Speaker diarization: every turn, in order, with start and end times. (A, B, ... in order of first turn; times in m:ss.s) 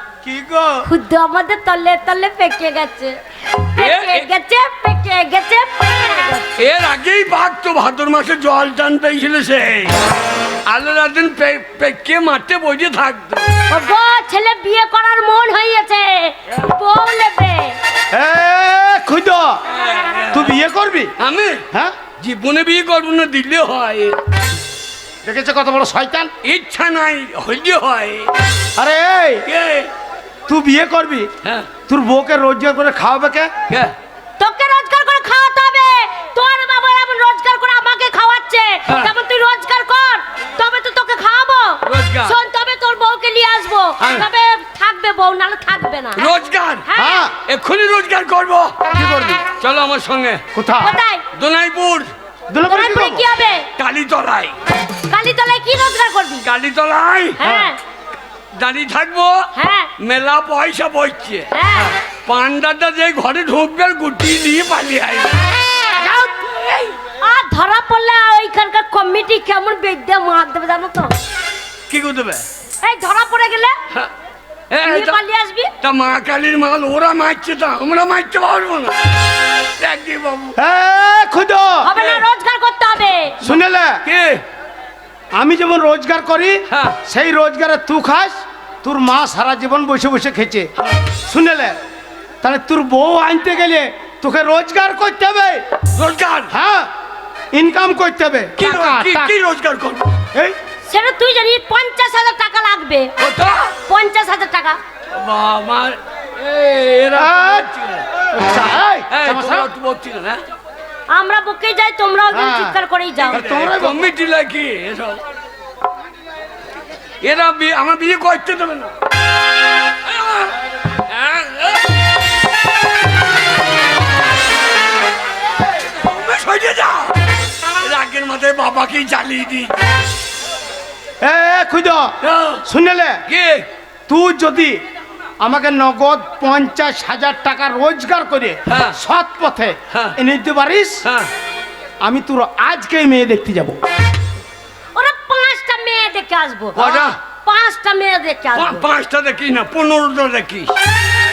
0:00.2-0:00.8 A
0:00.8-0:06.5 B
0:03.8-0:04.3 C
0:06.6-0:10.0 C
0:10.7-0:13.5 C
0:13.7-0:17.8 B
0:18.1-0:19.6 A
0:19.7-0:20.5 C
0:20.3-0:21.1 A
0:21.2-0:21.6 C
0:22.2-0:24.2 C
0:25.2-0:26.3 A
0:26.4-0:28.3 C
0:28.8-0:29.4 A
0:29.4-0:29.9 C
0:30.5-0:31.3 A
0:31.4-0:31.7 C
0:31.9-0:33.5 A
0:34.4-0:46.2 B
0:41.8-0:42.4 C
0:44.0-0:44.2 C
0:46.2-0:46.8 C
0:46.8-0:47.2 B
0:46.9-0:47.4 A
0:47.4-0:48.8 C
0:48.9-0:49.5 A
0:49.6-0:50.4 C
0:50.5-0:50.9 A
0:50.8-0:51.2 B
0:51.3-0:52.1 C
0:52.5-0:53.2 A
0:52.6-0:53.7 B
0:53.8-0:54.5 C
0:55.1-0:56.4 B
0:56.4-0:57.4 C
0:57.4-0:57.8 B
0:57.4-0:57.7 A
0:58.6-1:05.4 C
0:59.5-0:59.9 B
1:01.5-1:02.0 B
1:06.0-1:06.5 B
1:06.6-1:06.9 C
1:07.2-1:11.1 B
1:11.9-1:12.4 C
1:12.8-1:13.8 B
1:14.7-1:15.2 C
1:14.8-1:15.7 B
1:15.8-1:19.1 C
1:19.8-1:20.6 C
1:20.6-1:21.9 A
1:21.8-1:23.4 B
1:22.0-1:22.2 C
1:23.4-1:24.0 A
1:23.4-1:24.4 C
1:25.3-1:30.7 A
1:26.7-1:27.0 C
1:31.2-1:31.8 A
1:32.4-1:35.6 A
1:35.9-1:36.5 C
1:36.5-1:36.9 A
1:37.5-1:39.3 A
1:38.6-1:40.1 C
1:40.9-1:43.1 B
1:43.2-1:43.7 C
1:43.8-1:44.8 B
1:45.1-1:48.0 C
1:47.1-1:47.7 A
1:48.3-1:49.7 A
1:49.1-1:50.4 C
1:51.1-1:53.4 B
1:52.3-1:52.8 A
1:53.3-1:55.2 C
1:53.3-1:54.1 A
1:57.2-1:58.9 C
2:00.0-2:01.9 C
2:05.7-2:07.2 C
2:07.8-2:09.7 C
2:11.2-2:13.2 A
2:12.2-2:12.6 C
2:13.3-2:13.7 C
2:14.1-2:14.8 A
2:15.4-2:21.0 A
2:18.7-2:19.0 C
2:19.9-2:20.2 C
2:21.0-2:21.3 C
2:22.0-2:23.8 A
2:25.0-2:28.8 B
2:26.8-2:27.2 A
2:26.8-2:27.1 C
2:28.5-2:30.7 C